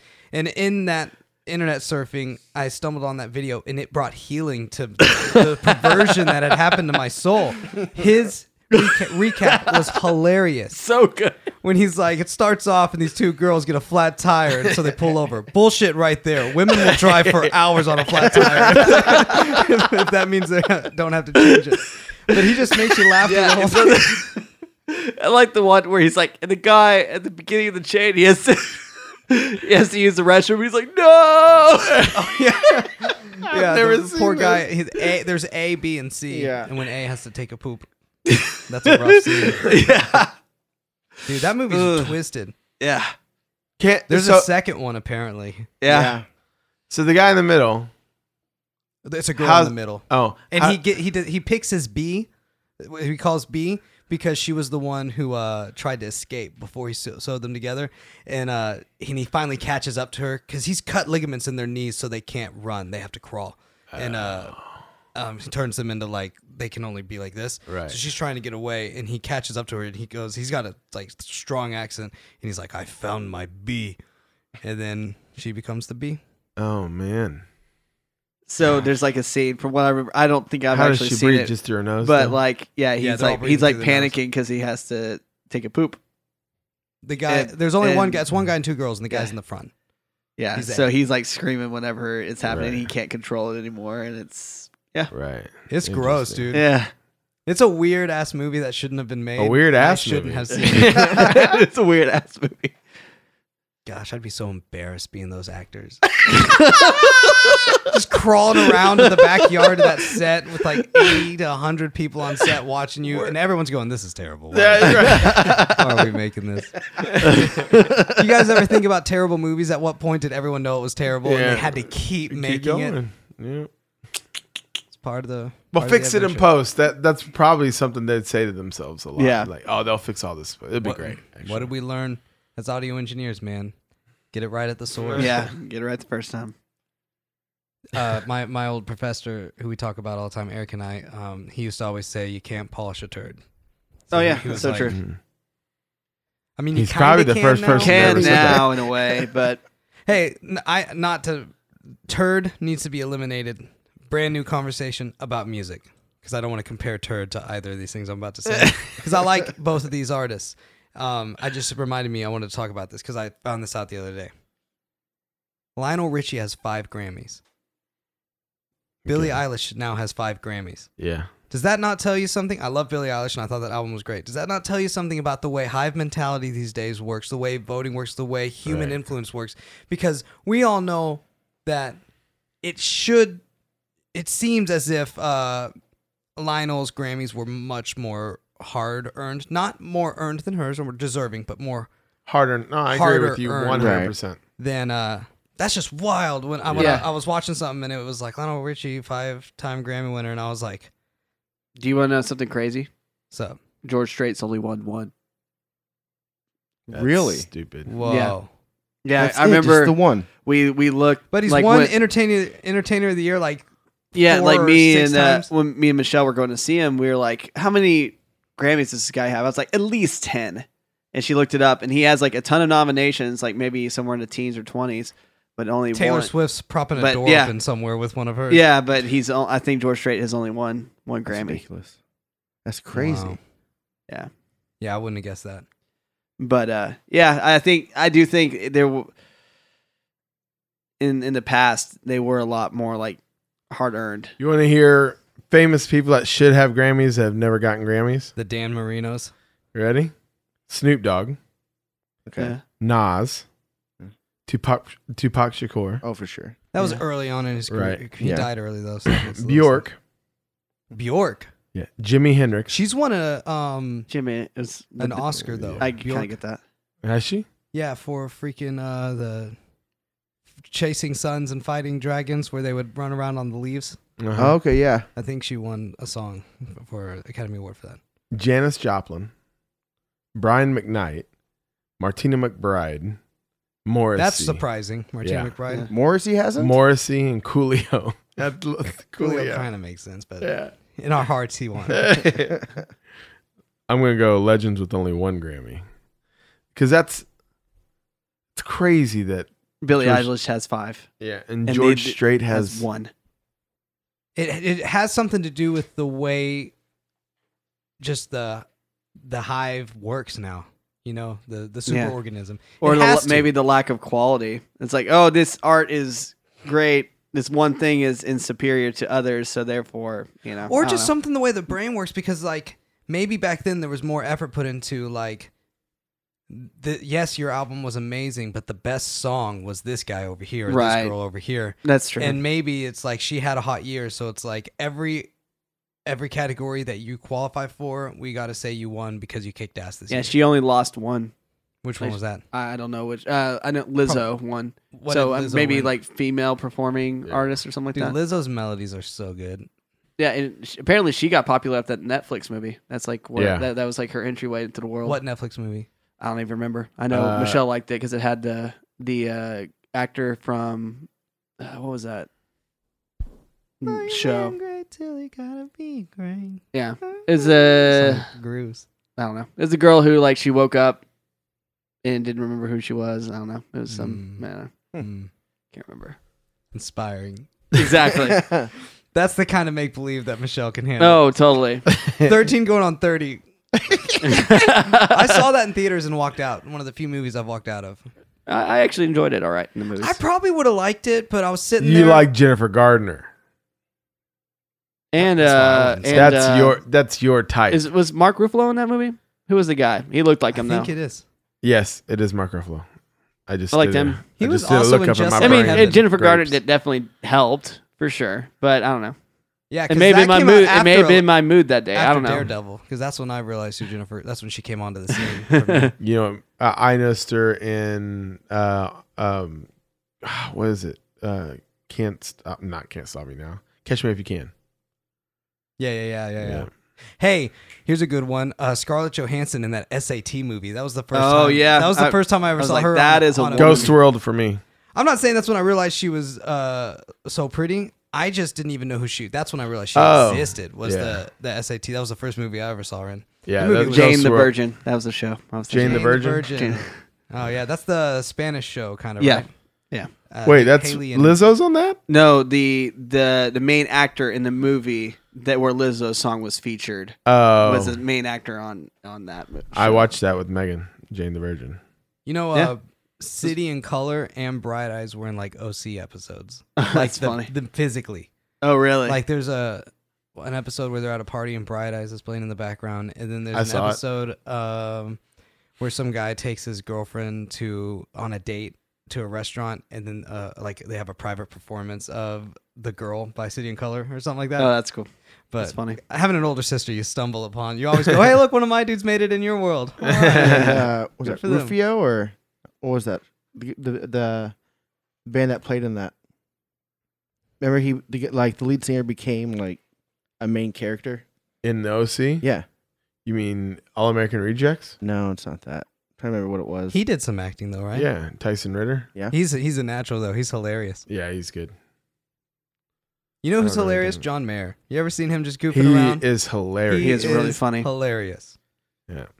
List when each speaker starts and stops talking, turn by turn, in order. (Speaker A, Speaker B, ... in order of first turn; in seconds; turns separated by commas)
Speaker A: 0.3-10.8, Speaker B: 5.1-6.0, Speaker B: 8.7-10.0, Speaker B: 10.7-11.3, Speaker A: 11.6-24.2, Speaker B: 18.2-19.7, Speaker B: 22.9-32.1, Speaker A: 32.1-37.9, Speaker C: 33.4-34.6, Speaker D: 36.3-36.7, Speaker B: 38.2-40.3, Speaker A: 38.7-39.9, Speaker A: 41.2-42.5, Speaker B: 41.7-42.1, Speaker B: 42.8-43.1, Speaker C: 43.8-44.5, Speaker A: 44.1-45.7, Speaker B: 45.8-46.1, Speaker D: 45.9-46.2, Speaker C: 46.9-47.9, Speaker A: 49.0-52.3, Speaker C: 49.4-50.8, Speaker A: 52.8-64.5, Speaker C: 63.9-64.6, Speaker A: 65.1-74.0, Speaker C: 67.7-68.0, Speaker A: 74.6-76.2, Speaker C: 76.6-77.4, Speaker B: 78.5-86.0, Speaker C: 80.7-82.4, Speaker A: 83.0-84.2, Speaker A: 87.0-89.7, Speaker B: 87.3-88.2, Speaker B: 90.4-95.1, Speaker A: 90.5-90.8, Speaker C: 92.5-92.9, Speaker C: 95.1-96.5, Speaker A: 95.7-96.7, Speaker B: 96.5-96.9, Speaker A: 97.5-101.2, Speaker C: 99.4-101.5, Speaker B: 100.5-102.8, Speaker A: 103.8-106.0, Speaker B: 106.2-107.9, Speaker A: 107.8-123.0, Speaker B: 108.7-110.1, Speaker B: 110.8-111.2, Speaker C: 114.5-115.7, Speaker B: 114.8-115.9, Speaker C: 117.0-117.6, Speaker B: 117.2-118.1, Speaker C: 121.2-123.7, Speaker A: 124.9-126.5, Speaker C: 125.7-131.7, Speaker B: 129.2-129.5, Speaker A: 130.8-133.7, Speaker A: 134.3-135.4, Speaker C: 135.0-135.3, Speaker B: 135.1-136.5, Speaker A: 137.9-143.4, Speaker A: 144.1-145.0, Speaker B: 144.1-145.0, Speaker C: 144.9-145.2, Speaker A: 146.6-148.6, Speaker C: 146.7-148.7, Speaker B: 147.7-149.6, Speaker A: 150.1-151.5, Speaker A: 152.1-164.3, Speaker A: 165.8-167.4, Speaker C: 169.0-169.4, Speaker A: 169.1-170.9, Speaker C: 171.0-171.3, Speaker A: 171.5-182.0, Speaker C: 178.7-178.9, Speaker A: 182.6-183.4, Speaker A: 184.1-185.7, Speaker A: 186.3-191.9, Speaker C: 192.2-194.4, Speaker A: 192.9-194.1, Speaker D: 193.8-194.1, Speaker A: 194.6-200.9, Speaker C: 196.6-197.0, Speaker B: 196.8-197.0, Speaker B: 201.8-202.9, Speaker A: 203.3-203.6, Speaker B: 203.8-205.1, Speaker D: 206.9-207.4, Speaker C: 206.9-207.9, Speaker A: 207.8-208.5, Speaker B: 208.0-208.3, Speaker B: 209.0-211.9, Speaker D: 209.2-210.3, Speaker A: 211.3-213.6, Speaker B: 214.1-226.3, Speaker A: 214.1-215.5, Speaker A: 225.9-228.6, Speaker B: 226.9-227.5, Speaker B: 228.5-231.6, Speaker D: 231.3-231.9, Speaker D: 232.6-233.4, Speaker A: 232.9-233.4, Speaker A: 234.8-235.6, Speaker B: 236.4-239.1, Speaker B: 241.0-244.3, Speaker C: 244.4-248.3, Speaker A: 248.3-249.3, Speaker C: 249.7-250.1, Speaker C: 250.7-251.4, Speaker D: 252.2-252.5, Speaker B: 252.4-252.6, Speaker C: 252.8-253.4, Speaker C: 254.5-256.0, Speaker D: 256.0-256.6, Speaker A: 256.7-259.8, Speaker C: 257.7-258.0, Speaker D: 258.2-258.5, Speaker C: 259.1-260.0, Speaker A: 260.9-261.5, Speaker C: 261.7-262.7, Speaker A: 262.7-264.1, Speaker B: 264.1-266.6, Speaker A: 265.0-266.3, Speaker C: 265.5-265.8, Speaker C: 267.0-267.4, Speaker A: 267.7-269.6, Speaker A: 270.7-274.0, Speaker C: 274.2-274.6, Speaker D: 274.4-275.1, Speaker A: 275.1-278.0, Speaker C: 278.3-279.3, Speaker C: 280.3-281.3, Speaker C: 282.0-283.2, Speaker C: 283.8-284.6, Speaker A: 284.1-285.9, Speaker C: 285.2-285.5, Speaker D: 285.9-286.8, Speaker C: 286.6-289.6, Speaker A: 289.2-292.0, Speaker C: 290.4-290.7, Speaker C: 291.9-292.7, Speaker C: 293.9-295.8, Speaker C: 296.7-297.2, Speaker C: 298.6-300.3, Speaker B: 299.8-301.1, Speaker C: 301.2-302.8, Speaker B: 301.6-303.1, Speaker A: 304.4-306.7, Speaker A: 308.0-308.6, Speaker A: 309.2-313.5, Speaker B: 311.9-312.1, Speaker B: 312.8-321.1, Speaker A: 320.7-325.5, Speaker A: 326.5-335.3, Speaker B: 330.7-331.1, Speaker B: 331.8-332.4, Speaker A: 336.1-340.3, Speaker B: 340.1-341.3, Speaker A: 341.8-342.4, Speaker B: 342.0-348.1, Speaker A: 344.9-345.9, Speaker A: 347.9-349.7, Speaker B: 350.2-355.2, Speaker C: 353.4-353.7, Speaker A: 355.0-355.9, Speaker B: 356.2-361.1, Speaker C: 357.1-357.6, Speaker B: 361.6-362.3, Speaker B: 363.8-364.6, Speaker A: 363.8-368.9, Speaker B: 366.7-368.3, Speaker B: 369.2-371.0, Speaker B: 372.0-374.7, Speaker A: 373.9-374.4, Speaker A: 374.9-375.3, Speaker B: 375.7-376.2, Speaker A: 376.7-377.5, Speaker B: 377.7-378.4, Speaker D: 378.2-378.7, Speaker A: 379.1-381.2, Speaker B: 381.0-381.8, Speaker C: 382.0-382.3, Speaker A: 382.2-383.4, Speaker A: 384.1-388.1, Speaker B: 384.2-385.4, Speaker B: 388.5-390.2, Speaker A: 390.0-392.2, Speaker C: 391.8-393.3, Speaker B: 395.1-396.8, Speaker A: 395.2-396.4, Speaker C: 396.1-397.8, Speaker B: 397.7-400.9, Speaker A: 400.5-401.2, Speaker C: 401.6-402.9, Speaker C: 403.5-406.6, Speaker B: 403.7-404.2, Speaker A: 404.4-406.1, Speaker B: 405.4-409.1, Speaker A: 409.7-411.3, Speaker B: 409.9-412.5, Speaker A: 411.9-415.9, Speaker B: 415.4-415.9, Speaker C: 416.0-419.7, Speaker C: 420.2-424.5, Speaker A: 425.8-433.9, Speaker C: 426.4-426.7, Speaker B: 431.1-433.9, Speaker C: 433.5-434.6, Speaker A: 434.9-444.3, Speaker C: 439.9-441.2, Speaker C: 443.4-444.5, Speaker B: 443.8-446.9, Speaker C: 445.7-446.5, Speaker A: 445.8-449.5, Speaker B: 449.2-450.1, Speaker A: 450.3-451.4, Speaker C: 450.4-452.0, Speaker B: 452.1-460.1, Speaker C: 457.3-458.0, Speaker C: 459.7-461.8, Speaker A: 462.2-468.3, Speaker B: 466.8-467.5, Speaker B: 468.6-469.2, Speaker A: 469.1-475.2, Speaker C: 473.5-474.0, Speaker A: 475.8-484.7, Speaker B: 484.6-485.1, Speaker A: 485.5-491.7, Speaker B: 485.6-486.0, Speaker C: 490.0-490.8, Speaker D: 490.2-494.5, Speaker D: 495.2-496.1, Speaker D: 497.6-499.8, Speaker D: 500.4-501.2, Speaker C: 501.6-502.4, Speaker C: 503.2-504.9, Speaker D: 505.0-506.9, Speaker A: 506.9-508.1, Speaker C: 507.9-509.1, Speaker A: 509.3-511.0, Speaker C: 511.1-511.7, Speaker A: 513.4-516.2, Speaker C: 513.6-514.2, Speaker C: 515.7-517.3, Speaker A: 516.9-518.5, Speaker B: 517.0-517.9